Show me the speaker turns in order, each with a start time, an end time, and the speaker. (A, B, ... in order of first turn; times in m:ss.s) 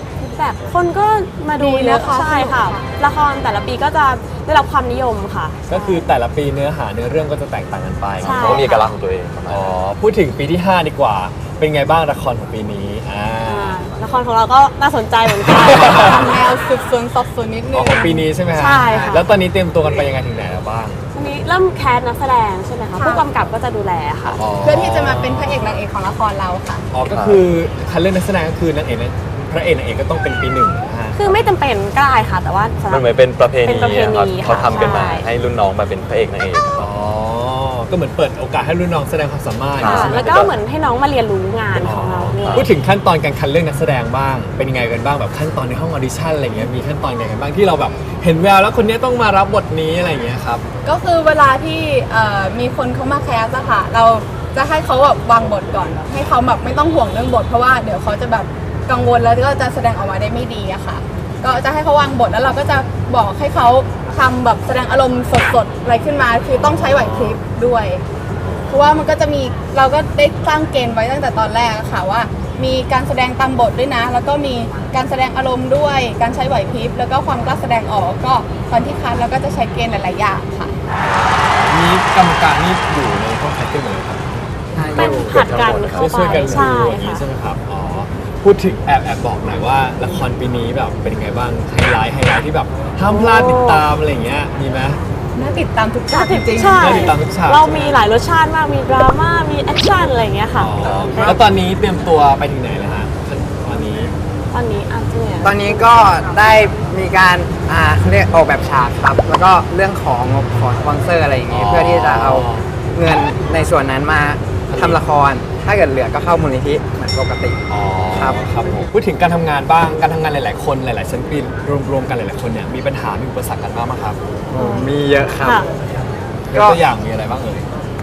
0:00.2-0:06.1 A
0:01.6-0:02.9 B
0:05.7-0:08.7 C
0:08.2-0:09.7 D
0:08.2-0:08.9 A
0:09.5-0:13.8 C
0:13.4-0:16.4 A
0:15.5-0:16.4 C
0:16.1-0:19.2 B
0:17.7-0:21.0 C
0:18.5-0:19.2 A
0:21.1-0:24.4 A
0:23.0-0:23.2 B
0:24.3-0:25.8 C
0:24.6-0:26.8 B
0:26.9-0:31.4 C
0:27.1-0:27.4 D
0:31.1-0:33.1 A
0:32.9-0:36.9 D
0:33.6-0:35.2 A
0:34.4-0:35.1 C
0:36.8-0:40.3 C
0:39.8-0:40.5 D
0:39.8-0:42.7 A
0:41.7-0:50.6 C
0:42.4-0:42.7 D
0:50.8-1:08.0 B
1:06.6-1:07.4 C
1:08.4-1:09.0 C
1:08.7-1:20.8 B
1:20.9-1:24.2 C
1:24.8-1:25.6 E
1:24.9-1:27.2 A
1:25.2-1:26.7 D
1:25.9-1:35.0 C
1:33.1-1:33.8 A
1:35.4-1:37.1 B
1:36.1-1:41.4 A
1:36.8-1:38.0 C
1:40.6-1:44.1 C
1:44.5-1:45.9 A
1:45.4-1:58.4 E
1:51.5-1:52.7 C
1:54.7-1:55.0 C
1:57.7-2:04.2 C
2:04.5-2:05.6 E
2:04.6-2:04.9 A
2:05.4-2:05.7 A
2:06.5-2:07.7 C
2:06.5-2:06.8 E